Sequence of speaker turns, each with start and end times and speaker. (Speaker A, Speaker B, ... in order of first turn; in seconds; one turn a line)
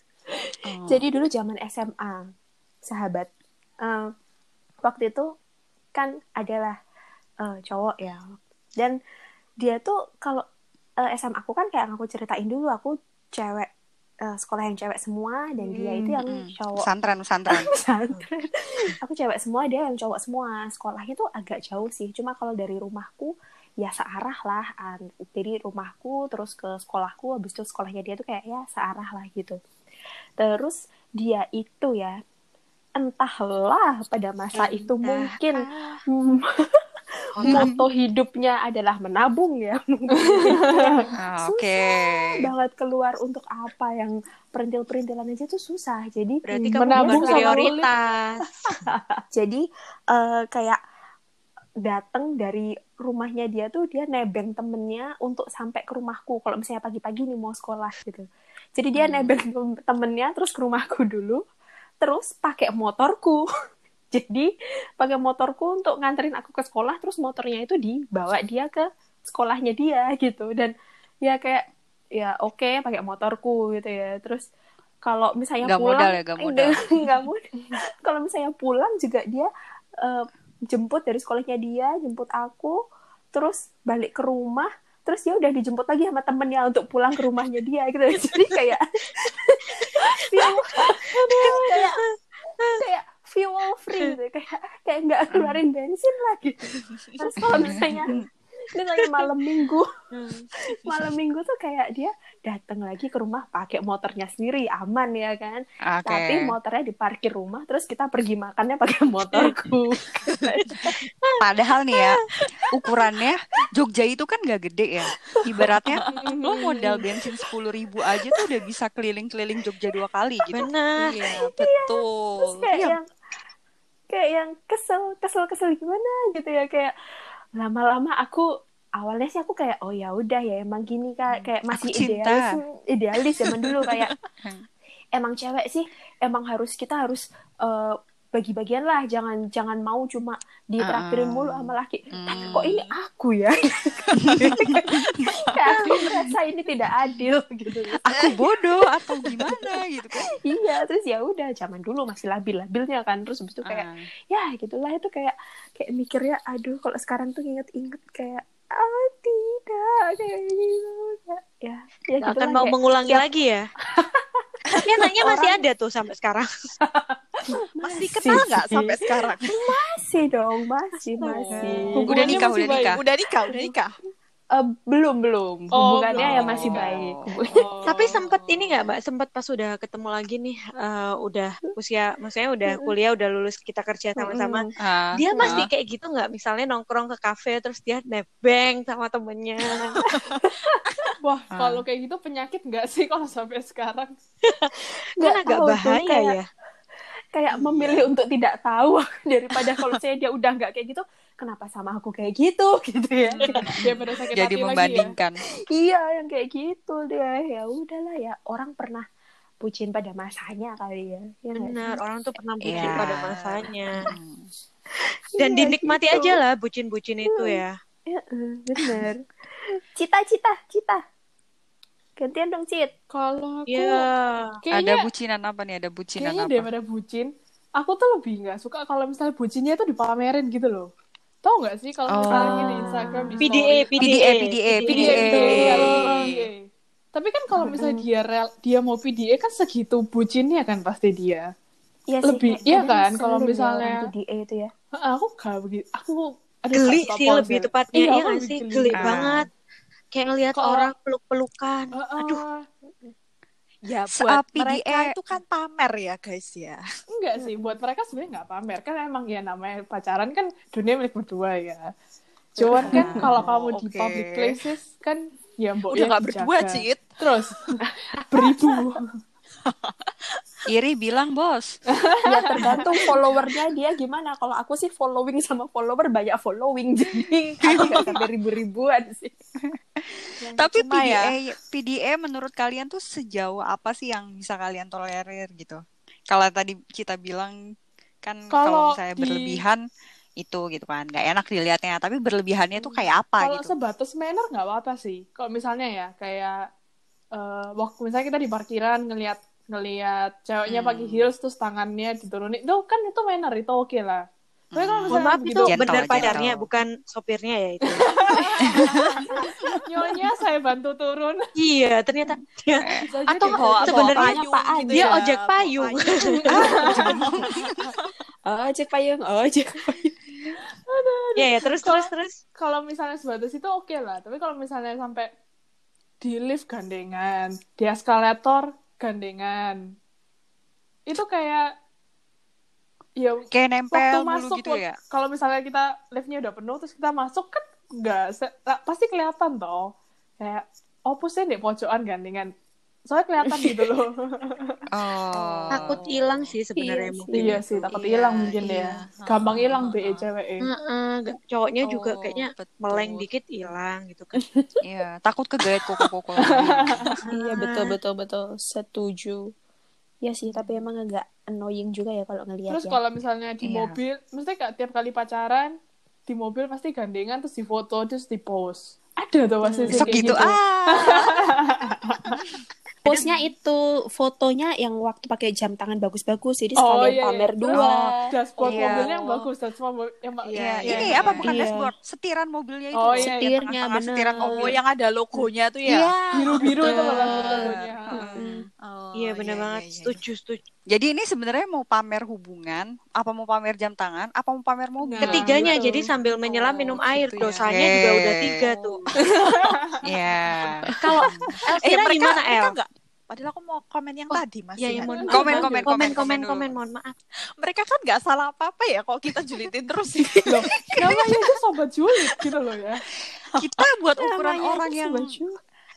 Speaker A: 0.4-2.3
Speaker B: 0.7-1.0
Speaker A: 2.9-3.3
Speaker A: 3.8-4.1
Speaker A: 4.8-5.3
Speaker A: 5.9-6.8
Speaker A: 7.4-9.0
Speaker A: 9.6-10.4
Speaker A: 11.0-13.7
Speaker A: 14.2-16.9
Speaker C: 15.7-16.2
Speaker B: 16.3-17.7
Speaker A: 17.5-29.6
Speaker A: 30.4-32.2
Speaker A: 33.0-36.8
Speaker D: 35.1-36.0
Speaker D: 37.4-37.7
Speaker A: 37.4-47.7
Speaker B: 37.5-37.8
Speaker C: 40.1-41.1
Speaker B: 41.2-42.5
Speaker D: 46.5-48.5
Speaker C: 46.5-47.9
Speaker A: 49.3-50.8
Speaker A: 51.8-61.4
Speaker B: 59.0-59.4
Speaker A: 62.0-63.4
Speaker A: 64.1-70.7
Speaker A: 71.2-74.5
Speaker A: 75.0-79.5
Speaker B: 75.6-77.3
Speaker A: 80.0-82.8
Speaker A: 83.3-92.0
Speaker D: 89.9-92.0
Speaker A: 92.8-98.2
Speaker B: 95.3-95.6
Speaker D: 97.2-97.7
Speaker B: 97.5-98.2
Speaker A: 98.7-99.9
Speaker D: 100.1-100.5
Speaker A: 100.6-110.9
Speaker B: 105.8-106.5
Speaker D: 110.8-111.4
Speaker B: 111.4-120.7
Speaker C: 116.1-116.8
Speaker D: 120.5-121.1
Speaker B: 121.2-123.0
Speaker A: 121.2-123.0
Speaker A: 124.1-126.9
Speaker A: 127.6-128.5
Speaker A: 129.0-134.1
Speaker B: 131.3-132.4
Speaker B: 133.4-134.7
Speaker A: 135.1-148.0
Speaker B: 140.8-142.8
Speaker B: 144.2-146.3
Speaker B: 148.0-150.3
Speaker A: 150.4-163.2
Speaker B: 153.6-154.1
Speaker D: 162.2-163.7
Speaker A: 163.9-165.6
Speaker D: 164.8-166.5
Speaker A: 167.6-172.3
Speaker E: 167.8-169.8
Speaker D: 171.2-172.0
Speaker C: 171.9-173.0
Speaker B: 172.1-173.0
Speaker E: 172.1-173.9
Speaker A: 173.5-173.7
Speaker A: 174.5-177.7
Speaker C: 175.7-176.9
Speaker B: 176.2-177.7
Speaker C: 177.5-178.1
Speaker D: 177.8-190.0
Speaker A: 184.2-184.7
Speaker B: 184.8-185.7
Speaker A: 185.3-185.6
Speaker A: 190.0-190.8
Speaker C: 191.2-194.1
Speaker B: 191.5-191.8
Speaker D: 194.5-196.4
Speaker A: 195.2-196.4
Speaker A: 197.3-203.8
Speaker B: 197.6-198.1
Speaker C: 203.7-205.2
Speaker B: 203.8-205.4
Speaker A: 205.7-209.1
Speaker A: 209.6-212.0
Speaker D: 211.5-214.1
Speaker B: 212.6-214.5
Speaker A: 212.8-213.0
Speaker A: 215.3-216.4
Speaker D: 215.4-217.7
Speaker A: 217.3-219.3
Speaker A: 219.9-221.0
Speaker A: 222.2-222.9
Speaker C: 223.1-224.1
Speaker D: 223.7-224.5
Speaker C: 224.6-225.1
Speaker B: 224.7-226.7
Speaker C: 226.2-230.9
Speaker C: 231.4-234.1
Speaker B: 232.1-232.9
Speaker A: 232.3-233.4
Speaker D: 233.4-235.9
Speaker B: 234.0-236.1
Speaker C: 234.8-241.5
Speaker E: 236.0-236.4
Speaker A: 237.7-238.1
Speaker A: 242.1-244.7
Speaker C: 242.2-244.1
Speaker C: 244.9-249.4
Speaker D: 246.7-249.5
Speaker B: 249.0-249.4
Speaker D: 250.1-252.4
Speaker C: 250.6-250.9
Speaker C: 251.9-252.7
Speaker E: 253.8-256.8
Speaker B: 254.2-255.1
Speaker C: 257.1-261.9
Speaker A: 257.4-257.8
Speaker C: 262.5-269.1
Speaker A: 262.6-263.3
Speaker E: 262.7-264.6
Speaker B: 262.8-263.5
Speaker E: 265.9-267.2
Speaker E: 269.6-270.4
Speaker B: 270.7-271.8
Speaker C: 271.9-273.1
Speaker A: 272.2-279.3
Speaker B: 277.6-278.2
Speaker B: 279.7-287.6
Speaker E: 280.6-281.3
Speaker B: 288.2-289.8
Speaker C: 288.5-289.6
Speaker B: 290.4-293.7
Speaker C: 293.4-296.7
Speaker C: 297.3-306.4
Speaker B: 300.6-301.3
Speaker B: 304.7-306.7
Speaker D: 305.1-308.8
Speaker C: 307.9-309.0
Speaker B: 308.7-309.8
Speaker C: 309.8-311.5
Speaker D: 311.6-314.4
Speaker B: 312.8-313.1
Speaker C: 313.0-314.2
Speaker E: 313.4-318.1
Speaker A: 313.9-315.2
Speaker D: 314.9-317.0
Speaker C: 316.4-317.3
Speaker B: 316.6-317.9
Speaker A: 318.4-320.5
Speaker C: 320.9-325.3
Speaker D: 321.4-322.4
Speaker C: 326.2-329.9
Speaker C: 331.1-331.8
Speaker C: 333.1-342.5
Speaker B: 333.5-335.0
Speaker C: 343.1-344.9
Speaker B: 344.9-346.1
Speaker E: 345.3-346.1
Speaker D: 345.7-347.9
Speaker A: 346.8-347.6
Speaker C: 347.3-350.7
Speaker E: 348.1-349.6
Speaker B: 348.5-350.2
Speaker D: 350.6-354.4
Speaker B: 351.8-353.2
Speaker A: 354.4-354.8
Speaker B: 354.8-357.1
Speaker C: 356.4-357.2
Speaker D: 357.3-357.9
Speaker A: 357.3-359.5
Speaker A: 360.2-363.0
Speaker C: 362.7-365.7
Speaker B: 363.6-364.0
Speaker C: 366.3-372.4
Speaker A: 369.6-370.4
Speaker B: 369.9-371.5
Speaker B: 372.4-373.3
Speaker A: 373.0-378.3
Speaker C: 376.8-381.5
Speaker B: 377.7-379.2
Speaker E: 378.6-379.5
Speaker E: 380.4-381.4
Speaker B: 380.6-384.8
Speaker A: 381.4-381.9
Speaker C: 382.9-383.6
Speaker A: 383.1-384.8
Speaker E: 384.5-387.8
Speaker B: 385.8-388.5
Speaker C: 386.3-388.3
Speaker A: 388.4-388.7
Speaker E: 388.8-390.2
Speaker D: 389.1-390.6
Speaker B: 390.9-395.7
Speaker C: 395.0-396.1
Speaker D: 395.2-399.1
Speaker E: 396.8-397.7
Speaker B: 397.7-399.0
Speaker C: 399.2-400.1
Speaker B: 400.0-401.6
Speaker C: 400.8-401.7
Speaker D: 401.0-402.7
Speaker E: 401.7-405.5
Speaker D: 404.3-407.1
Speaker C: 405.1-405.9
Speaker B: 405.3-406.7
Speaker E: 407.6-411.4
Speaker C: 410.4-413.0
Speaker B: 413.6-415.3
Speaker E: 413.6-413.9
Speaker A: 414.2-415.6